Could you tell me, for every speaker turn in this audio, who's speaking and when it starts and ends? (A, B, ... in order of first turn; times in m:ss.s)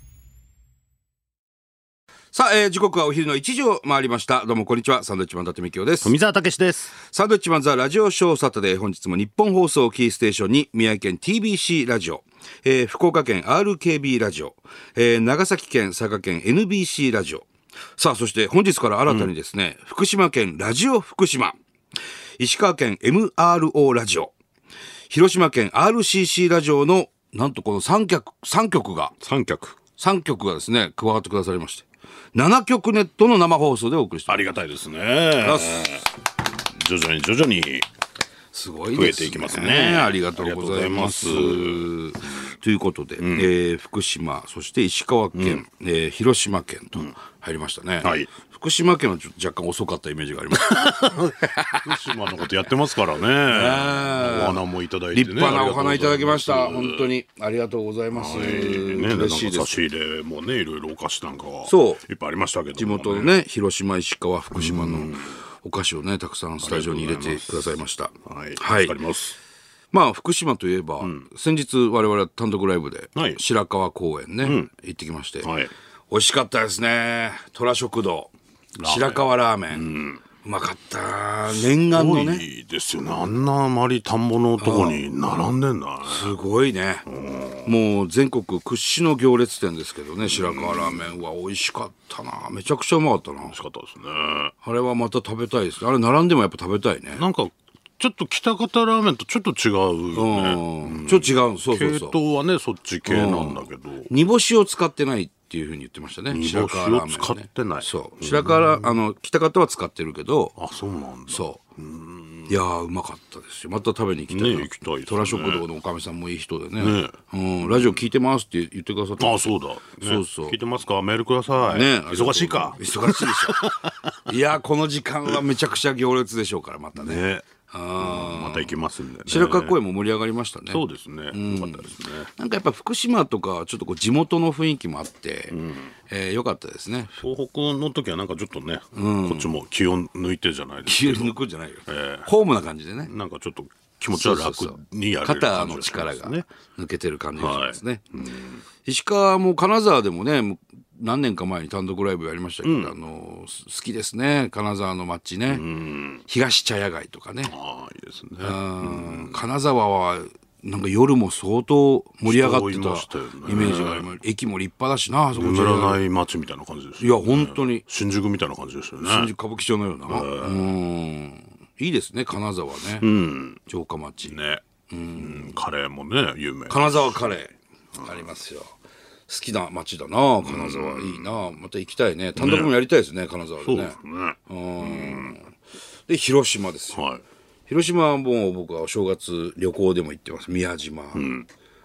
0:02.3-0:06.1 A
0:06.0-0:06.9 B
0:07.0-0:21.6 A
0:22.4-0:24.3 A
0:25.1-0:29.1 A
0:29.2-0:29.8 B
0:30.0-0:34.5 A
0:34.3-0:36.1 B
0:35.4-0:36.0 A
0:36.6-0:37.8 B
0:38.5-0:52.1 A
0:38.9-0:41.9 B
0:43.2-0:43.5 B
0:45.3-0:45.6 B
0:48.0-0:48.3 B
0:50.5-0:57.1 B
0:53.5-0:54.6 A
0:55.1-0:59.8 A
0:58.1-1:03.4 B
1:01.6-1:02.0 A
1:02.8-1:09.0 A
1:04.5-1:05.4 B
1:06.6-1:09.4 B
1:09.9-1:15.5 A
1:11.0-1:11.3 B
1:13.1-1:13.4 B
1:14.4-1:14.7 B
1:15.4-1:15.7 B
1:16.1-1:18.3 A
1:18.8-1:20.2 B
1:18.8-1:19.9 A
1:20.4-1:22.4 A
1:21.5-1:26.3 B
1:24.6-1:25.0 A
1:26.0-1:27.1 A
1:27.1-1:27.7 B
1:27.6-1:33.6 A
1:30.2-1:31.1 B
1:33.5-1:34.5 B
1:34.6-1:37.2 A
1:37.1-1:44.1 B
1:40.1-1:42.2 A
1:43.1-1:50.5 A
1:46.3-1:49.0 B
1:50.6-1:52.6 B
1:51.3-1:51.6 A
1:52.5-2:00.6 A
1:54.3-1:55.6 B
1:56.8-1:58.0 B
1:59.2-2:04.1 B
2:01.7-2:08.7 A
2:07.0-2:07.4 B
2:08.0-2:09.8 B
2:09.3-2:17.2 A
2:10.7-2:12.3 B
2:15.5-2:15.9 B
2:17.2-2:21.4 B
2:18.9-2:19.5 A
2:20.8-2:23.1 A
2:21.9-2:22.3 B
2:23.1-2:26.4 B
2:24.1-2:28.0 A
2:27.4-2:28.6 B
2:28.8-2:35.6 A
2:32.6-2:33.0 B
2:35.5-2:36.2 B
2:36.3-2:37.5 A
2:37.5-2:39.4 B
2:38.4-2:46.0 A
2:42.2-2:44.1 B
2:45.3-2:49.3 B
2:47.0-2:47.8 A
2:49.0-2:53.1 A
2:50.0-2:50.7 B
2:53.0-2:53.6 B
2:53.7-2:54.4 A
2:54.3-2:54.6 B
2:54.9-2:55.6 A
2:55.1-2:57.4 B
2:56.7-2:58.7 A
2:58.0-2:58.2 B
2:59.3-3:05.5 A
3:00.4-3:01.3 B
3:02.4-3:02.7 B
3:03.6-3:05.4 B
3:06.1-3:07.0 A
3:06.9-3:07.2 B
3:07.7-3:11.3 A
3:11.1-3:11.5 B